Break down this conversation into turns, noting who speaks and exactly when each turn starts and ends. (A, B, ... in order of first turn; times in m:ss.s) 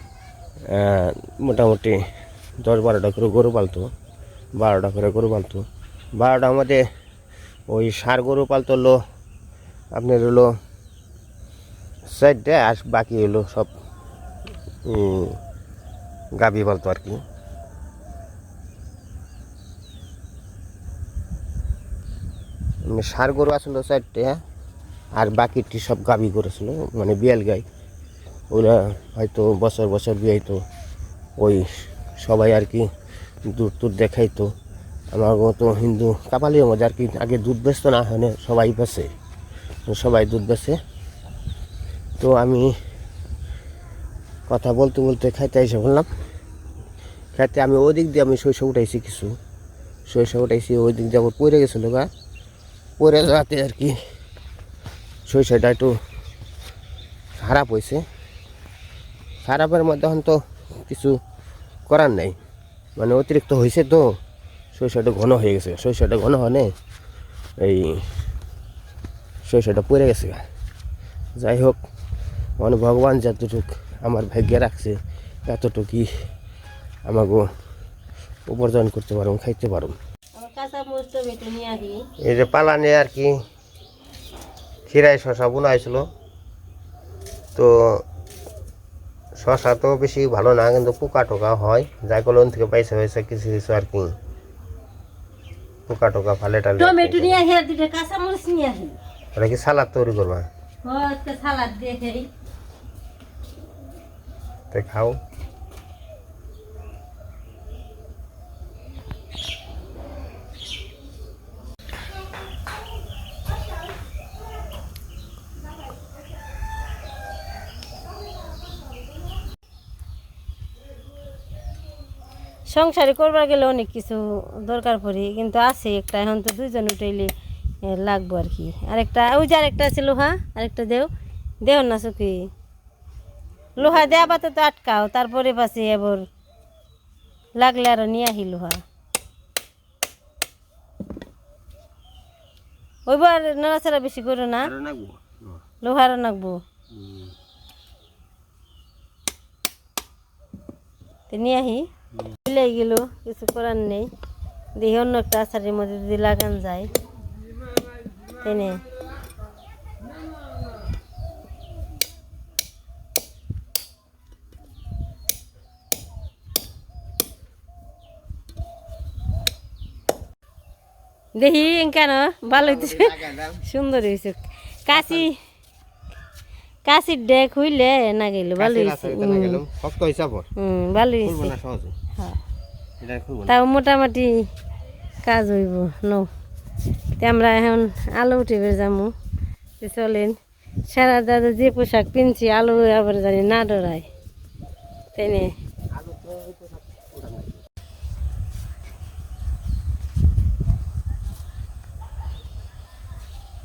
0:00.7-0:02.0 A
0:02.6-0:03.9 A
0:04.6-0:06.8 A
0:07.7-0:09.0 A
0:09.9-0:10.5 A
0:12.1-0:13.7 A
0:14.9-0:15.4 A
0:16.4-0:17.2 A
0:22.9-0:24.4 A
0:25.2-0:27.6 A
0:28.5-0:30.6 A
0:31.4-0:32.9 A
0:33.5-0:34.5 A
0:35.1-0:39.1 A
0:39.9-0:40.8 A
0:42.2-0:42.8 A
0:44.5-0:46.1 A
0:47.4-0:49.3 A
0:50.1-0:52.1 A
0:53.0-0:54.0 A
0:55.3-0:56.0 A
0:57.4-0:58.0 A
0:59.4-1:01.2 A
1:01.9-1:02.4 A
1:03.0-1:04.2 A
1:04.7-1:06.7 A
1:07.6-1:08.0 A
1:09.5-1:10.4 A
1:11.4-1:11.8 A
1:12.6-1:16.1 A
1:17.1-1:17.5 A
1:18.5-1:20.0 A
1:20.4-1:22.0 B
1:22.2-1:23.3 A
1:24.9-1:26.1 A
1:27.6-1:28.0 A
1:29.4-1:34.1 A
1:35.9-1:37.4 A
1:36.8-1:39.0 B
1:39.4-1:40.5 A
1:40.8-1:42.3 B
1:44.7-1:45.2 A
2:02.7-2:07.3 B
2:07.8-2:11.1 B
2:11.6-2:12.5 B
2:13.8-2:16.3 B
2:17.6-2:18.8 B
2:23.1-2:24.7 B
2:24.6-2:25.4 A
2:25.8-2:26.6 B
2:27.0-2:27.3 A
2:31.3-2:31.9 B
2:32.5-2:34.1 B
2:34.8-2:36.9 B
2:38.4-2:38.8 B
2:51.4-2:55.4 B
2:52.6-2:53.5 A
2:54.9-2:55.3 A
2:56.8-2:59.6 B
2:58.6-3:00.5 A
3:00.6-3:01.6 B
3:01.2-3:01.9 A
3:03.0-3:03.6 A
3:03.5-3:04.5 B
3:05.2-3:06.3 B
3:07.2-3:09.1 B
3:09.8-3:10.4 B
3:10.9-3:14.1 B
3:15.2-3:15.5 B
3:15.9-3:17.6 A